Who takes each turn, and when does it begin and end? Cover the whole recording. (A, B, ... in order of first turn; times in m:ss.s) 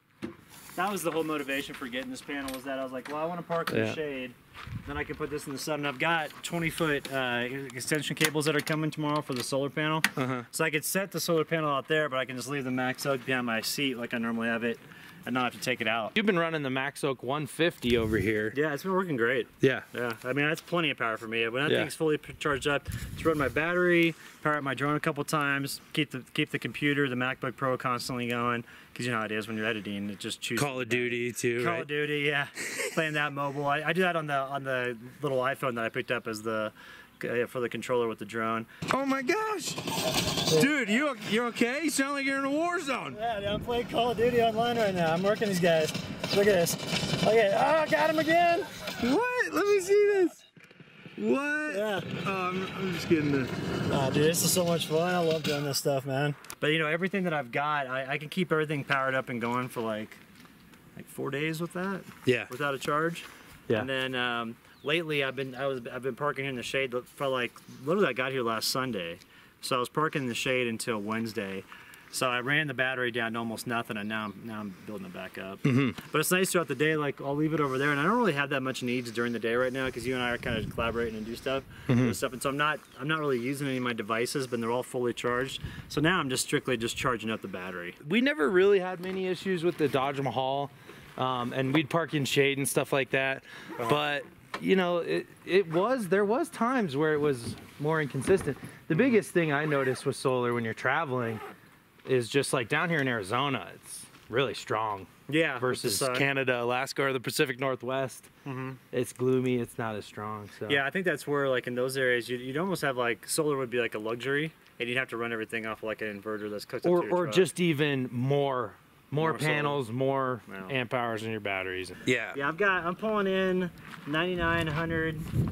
0:00.8-0:16.1 A
0:03.7-0:04.0 B
0:10.2-0:10.5 B
0:16.1-0:18.6 B
0:18.5-0:38.7 A
0:21.7-0:21.9 B
0:30.6-0:31.9 B
0:38.9-0:43.2 B
0:40.5-0:40.7 A
0:43.1-0:48.8 A
0:49.0-0:50.4 B
0:51.2-0:53.6 B
0:51.7-0:52.1 A
0:53.9-1:00.2 A
1:01.0-1:28.0 A
1:02.2-1:02.5 B
1:15.6-1:16.0 B
1:21.9-1:22.2 B
1:28.0-1:41.4 B
1:42.1-1:48.3 B
1:45.3-1:46.3 A
1:48.4-1:48.8 A
1:48.9-1:50.8 B
1:50.7-1:57.5 A
1:56.8-2:02.4 B
1:59.2-1:59.8 A
2:00.5-2:00.7 A
2:02.3-2:05.3 A